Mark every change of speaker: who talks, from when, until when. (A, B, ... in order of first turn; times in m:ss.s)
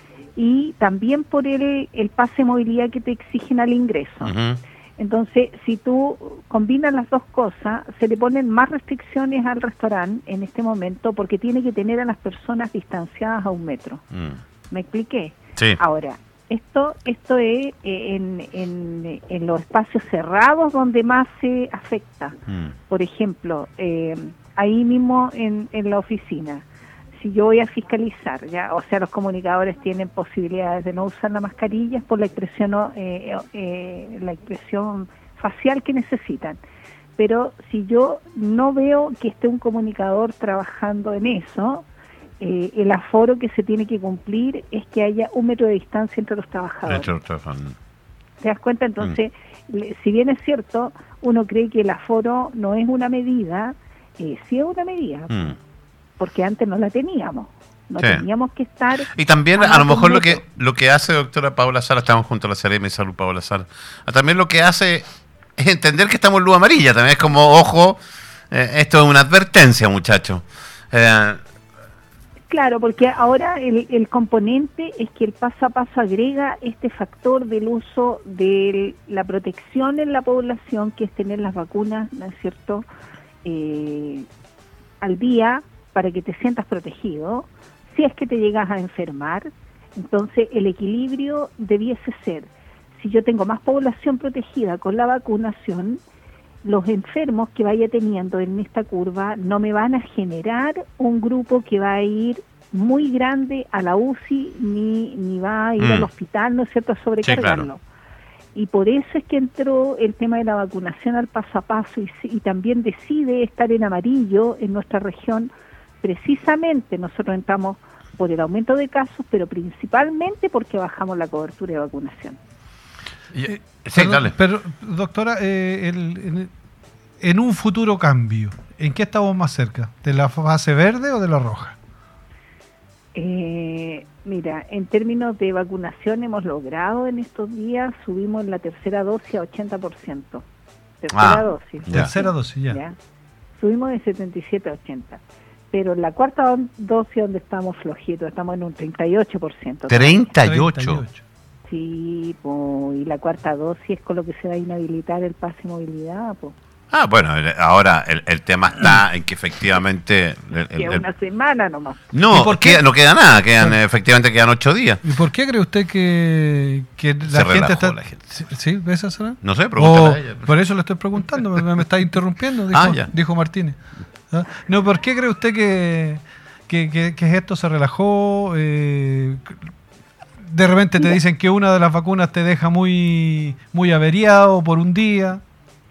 0:00.4-0:04.4 A
0:04.2-0:04.6 B
0:05.0-0:14.0 A
0:14.7-0:36.6 A
0:37.2-0:41.9 A
0:42.4-0:47.1 A
0:46.9-0:47.8 B
0:48.4-0:55.6 A
0:55.3-0:55.6 B
0:56.2-1:00.4 A
0:59.1-1:05.0 B
1:05.6-1:08.0 B
1:08.5-1:11.4 B
1:12.5-1:22.9 A
1:23.4-1:24.3 A
1:25.0-1:36.0 A
1:36.6-1:47.8 A
1:45.8-1:46.1 B
1:47.2-1:47.7 B
1:48.5-1:55.5 A
1:56.0-2:02.4 A
2:03.3-2:04.4 B
2:03.5-2:06.5 C
2:07.2-2:11.8 C
2:13.2-2:20.4 A
2:21.0-2:23.0 A
2:21.1-2:22.1 B
2:21.9-2:22.8 C
2:23.6-2:30.3 A
2:29.9-2:31.0 B
2:30.4-2:31.2 C
2:31.7-2:36.6 A
2:36.9-2:41.0 B
2:40.8-2:42.1 A
2:42.1-2:45.0 B
2:42.3-2:42.8 C
2:45.0-2:53.8 C
2:47.3-2:48.3 B
2:49.4-2:50.5 B
2:52.7-2:53.1 B
2:54.3-2:59.6 C
3:00.4-3:05.4 C